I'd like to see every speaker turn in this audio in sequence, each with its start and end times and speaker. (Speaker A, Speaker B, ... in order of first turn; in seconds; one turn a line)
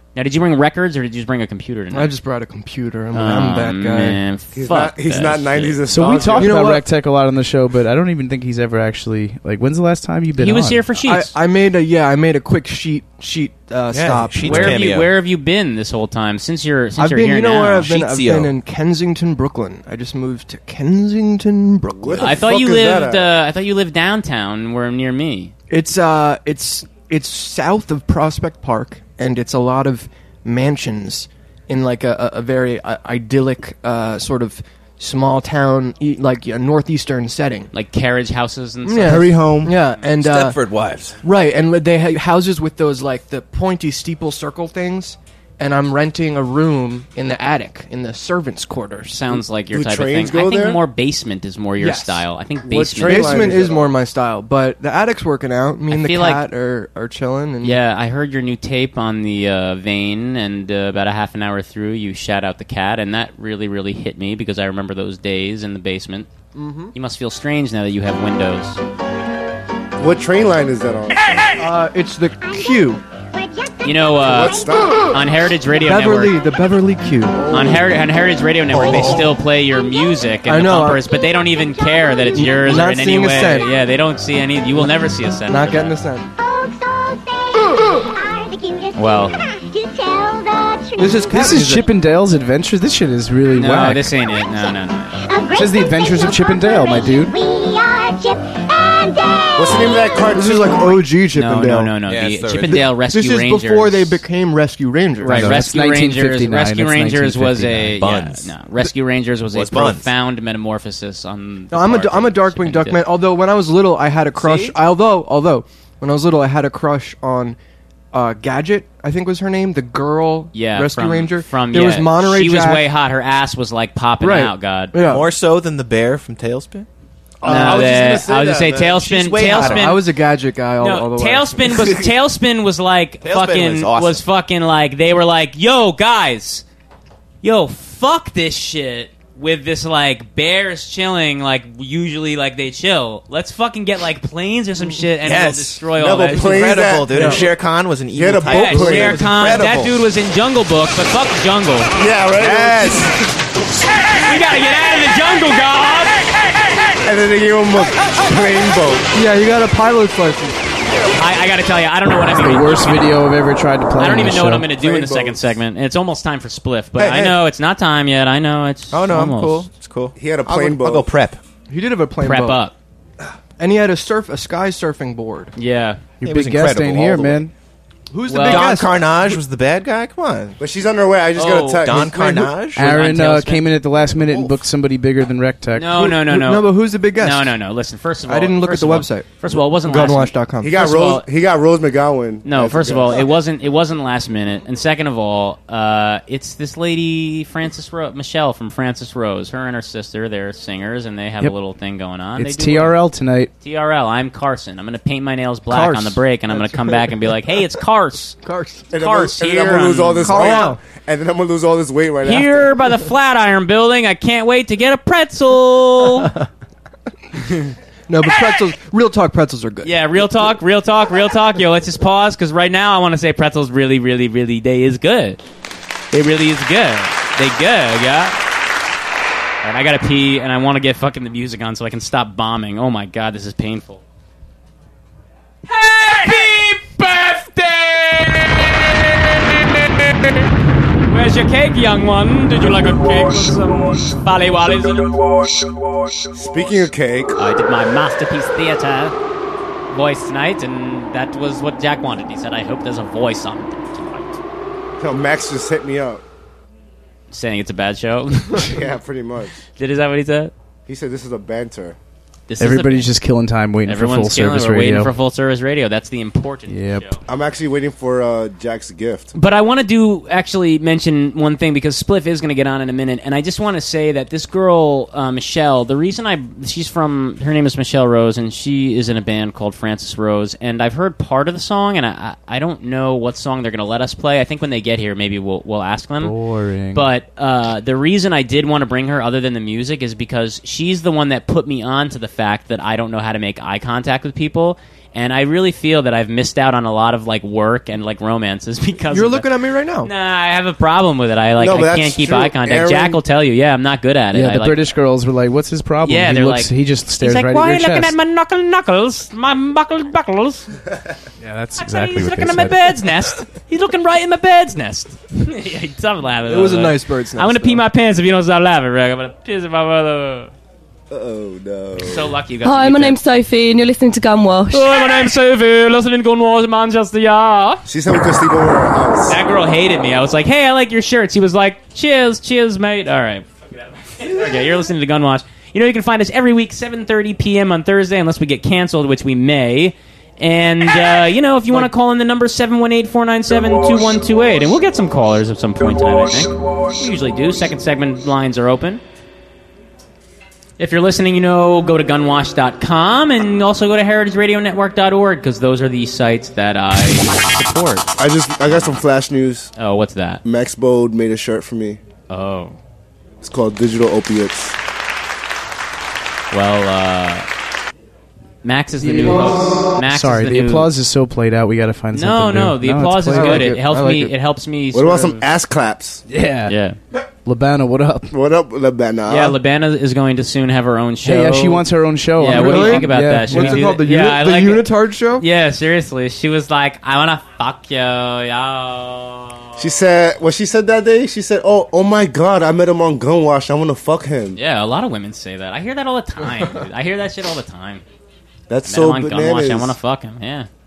Speaker A: 0.1-2.1
Speaker B: 1.9-4.2
Speaker A: 3.1-6.0
Speaker C: 4.5-6.8
Speaker D: 5.9-10.9
Speaker B: 6.4-6.8
Speaker A: 10.4-11.3
Speaker B: 11.0-14.8
Speaker E: 13.9-15.1
Speaker A: 14.4-17.9
Speaker B: 17.0-22.4
Speaker E: 17.7-18.5
Speaker C: 21.9-23.3
Speaker A: 22.2-25.5
Speaker B: 25.7-37.7
Speaker A: 37.7-39.3
Speaker B: 38.8-40.6
Speaker C: 39.0-39.7
Speaker E: 40.1-41.2
Speaker B: 41.2-49.4
Speaker A: 49.1-53.6
Speaker C: 49.7-50.8
Speaker B: 51.8-52.2
Speaker C: 52.6-53.9
Speaker B: 53.0-57.8
Speaker A: 55.9-56.4
Speaker A: 57.6-66.3
Speaker B: 66.5-66.9
Speaker A: 66.9-68.8
Speaker C: 70.0-71.6
Speaker B: 71.6-73.0
Speaker A: 73.8-74.6
Speaker C: 74.2-75.2
Speaker A: 75.1-76.4
Speaker B: 75.8-77.8
Speaker A: 77.5-86.0
Speaker B: 78.8-79.2
Speaker B: 80.5-81.0
Speaker B: 82.3-83.7
Speaker B: 84.7-86.3
Speaker A: 88.9-89.3
Speaker B: 91.0-91.9
Speaker D: 91.3-94.1
Speaker A: 93.5-95.2
Speaker D: 95.5-97.4
Speaker C: 99.5-101.0
Speaker B: 100.3-102.0
Speaker A: 101.3-104.2
Speaker E: 102.0-102.9
Speaker B: 103.0-105.5
Speaker A: 105.2-113.0
Speaker D: 105.3-107.9
Speaker E: 107.9-108.5
Speaker E: 109.5-110.1
Speaker B: 111.7-117.6
Speaker A: 114.4-114.8
Speaker B: 118.1-122.9
Speaker A: 120.5-125.0
Speaker B: 124.2-125.2
Speaker E: 125.0-126.8
Speaker C: 127.4-128.8
Speaker E: 127.4-130.0
Speaker A: 127.4-130.0
Speaker B: 129.5-132.0
Speaker A: 130.8-136.6
Speaker E: 133.2-134.2
Speaker A: 137.4-146.6
Speaker B: 144.8-145.1
Speaker E: 145.2-149.9
Speaker C: 145.9-147.4
Speaker B: 147.1-147.4
Speaker C: 148.1-149.7
Speaker A: 148.4-151.9
Speaker C: 151.9-153.1
Speaker E: 152.3-153.0
Speaker A: 154.2-156.2
Speaker C: 157.0-159.1
Speaker B: 159.1-160.6
Speaker A: 161.2-163.2
Speaker D: 162.3-164.7
Speaker A: 164.0-169.7
Speaker C: 164.9-165.4
Speaker E: 167.0-167.3
Speaker E: 168.9-171.4
Speaker C: 170.2-171.1
Speaker B: 171.7-172.7
Speaker A: 172.2-172.7
Speaker B: 173.6-175.5
Speaker A: 175.5-176.0
Speaker E: 176.2-177.5
Speaker D: 176.2-177.5
Speaker B: 178.1-179.3
Speaker A: 178.3-178.7
Speaker E: 178.4-180.6
Speaker C: 180.6-182.6
Speaker A: 181.3-181.9
Speaker E: 181.8-182.9
Speaker A: 182.8-183.7
Speaker D: 182.8-186.0
Speaker E: 184.1-184.6
Speaker A: 185.7-191.2
Speaker B: 185.9-187.6
Speaker B: 188.2-190.9
Speaker C: 190.6-193.3
Speaker A: 192.4-203.0
Speaker D: 202.4-203.5
Speaker A: 203.6-208.3
Speaker B: 205.7-207.6
Speaker B: 208.4-208.9
Speaker C: 208.9-212.7
Speaker A: 208.9-210.7
Speaker B: 210.2-210.8
Speaker A: 212.2-216.3
Speaker B: 218.1-220.0
Speaker A: 219.8-225.4
Speaker A: 226.1-228.4
Speaker A: 229.6-234.0
Speaker A: 235.7-239.3
Speaker A: 241.0-245.2
Speaker C: 246.3-247.3
Speaker A: 247.4-249.1
Speaker A: 249.9-254.4
Speaker C: 255.0-256.2
Speaker A: 257.3-258.8
Speaker C: 258.6-259.6
Speaker A: 259.8-260.5
Speaker C: 260.9-262.0
Speaker A: 262.5-263.1
Speaker D: 262.6-265.1
Speaker A: 263.8-267.2
Speaker D: 266.7-267.1
Speaker C: 267.3-269.3
Speaker A: 269.3-286.3
Speaker D: 286.2-287.1
Speaker A: 286.9-304.8
Speaker B: 299.1-300.1
Speaker C: 301.6-303.2
Speaker D: 304.3-308.1
Speaker A: 306.0-310.7
Speaker D: 311.4-313.0
Speaker A: 311.8-320.5
Speaker B: 316.4-317.8
Speaker C: 321.1-322.3
Speaker A: 322.0-323.2
Speaker F: 322.6-324.8
Speaker A: 324.7-327.8
Speaker C: 327.9-329.4
Speaker A: 329.3-349.0
Speaker A: 350.8-358.1
Speaker C: 358.2-359.7
Speaker A: 358.7-358.9
Speaker A: 359.8-360.4
Speaker C: 360.4-362.0
Speaker A: 362.3-362.8
Speaker C: 363.4-364.7
Speaker A: 366.5-367.5
Speaker A: 368.6-370.9
Speaker D: 369.0-373.6
Speaker A: 372.1-375.4
Speaker B: 373.3-374.3
Speaker C: 374.9-376.2
Speaker D: 376.3-376.7
Speaker A: 376.6-377.0
Speaker D: 377.4-378.3
Speaker C: 378.3-379.6
Speaker A: 379.3-381.8
Speaker D: 381.2-383.9
Speaker A: 382.4-389.8
Speaker B: 382.4-385.4
Speaker C: 389.8-394.6
Speaker A: 394.5-398.0
Speaker C: 398.7-399.9
Speaker A: 398.9-400.7